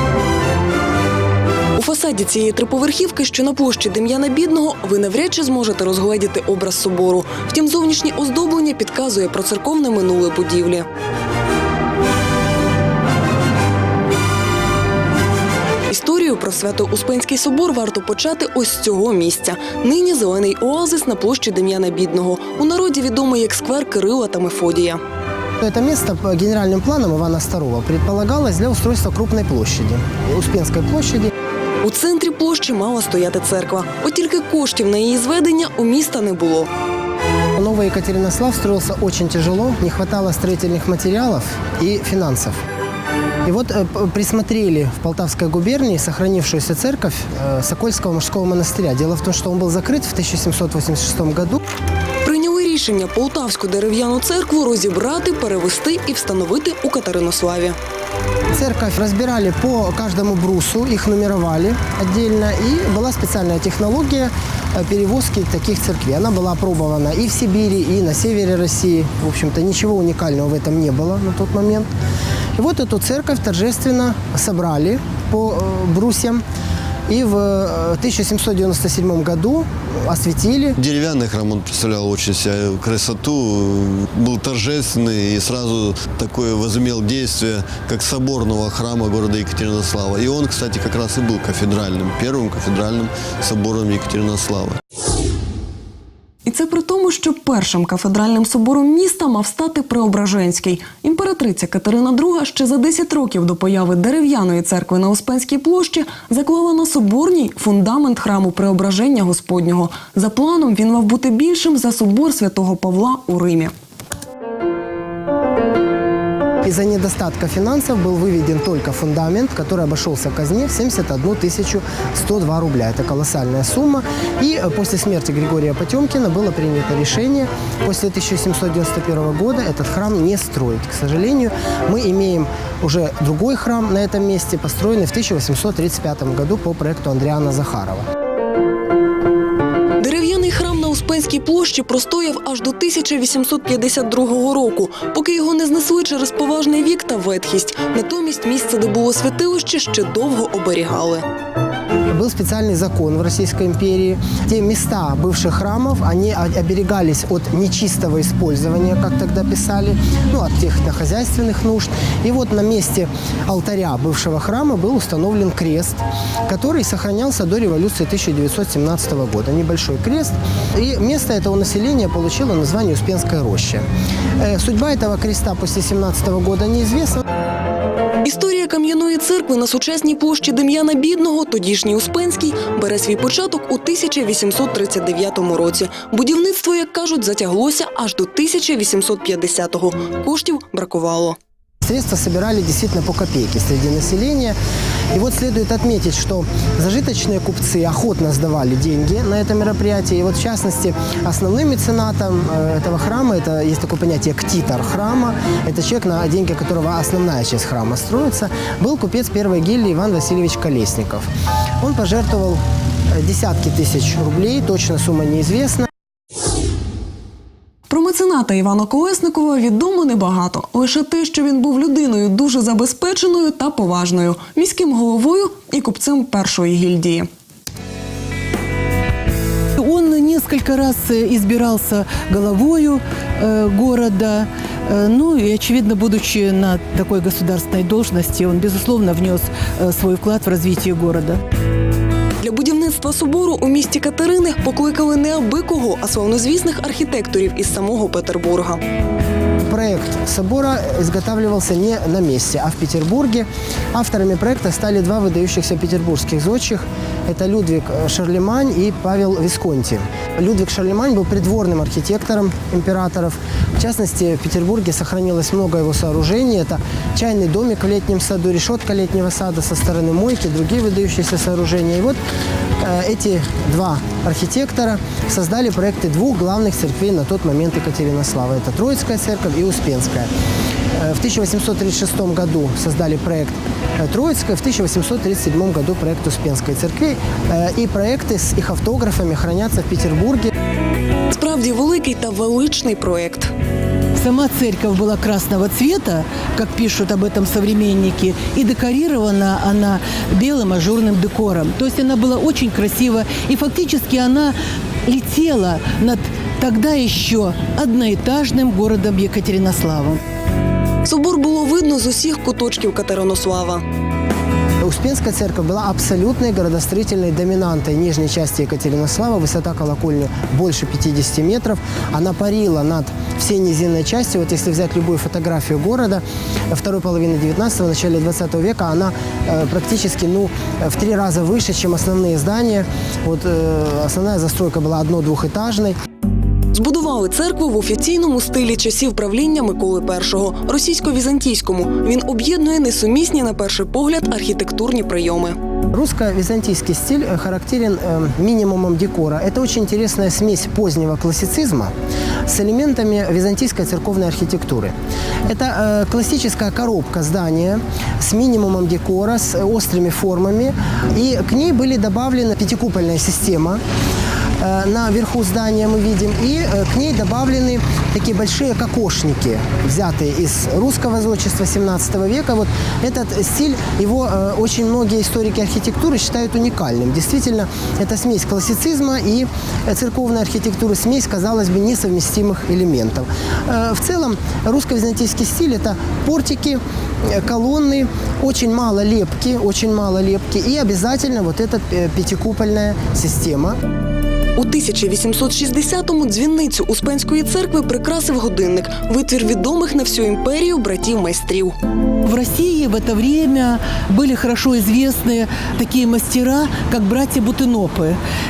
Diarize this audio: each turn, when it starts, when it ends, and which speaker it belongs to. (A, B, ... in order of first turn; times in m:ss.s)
0:01.8-0:10.8 A
0:15.9-0:25.0 A
0:25.6-0:31.3 B
0:31.8-0:36.7 A
0:37.5-0:42.6 B
0:43.4-0:51.6 B
0:52.2-0:57.8 A
0:58.5-1:11.9 B
1:12.6-1:16.4 B
1:17.1-1:20.8 B
1:20.8-1:34.8 C
1:36.4-1:53.7 A
1:56.6-2:18.0 B
2:20.0-2:31.2 A
2:32.1-2:53.8 B
2:54.4-2:57.2 B
2:58.2-3:11.4 A
3:11.8-3:14.6 B
3:15.1-3:31.3 B
3:31.8-3:32.6 B
3:33.1-3:35.9 B
3:37.9-3:47.3 A
3:49.8-4:01.4 D
4:02.4-4:08.8 A
4:09.6-4:32.2 B
4:32.8-4:40.3 B
4:41.0-4:50.5 B
4:51.3-4:53.5 A
4:54.2-5:04.6 D
5:05.1-5:10.2 D
5:11.0-5:13.8 A
5:14.8-5:36.0 B
5:36.7-5:45.6 A
5:45.9-5:51.9 B
5:52.5-5:54.9 B
5:55.5-6:03.8 B
6:04.6-6:33.8 B
6:34.6-6:41.8 A
6:42.2-6:48.2 D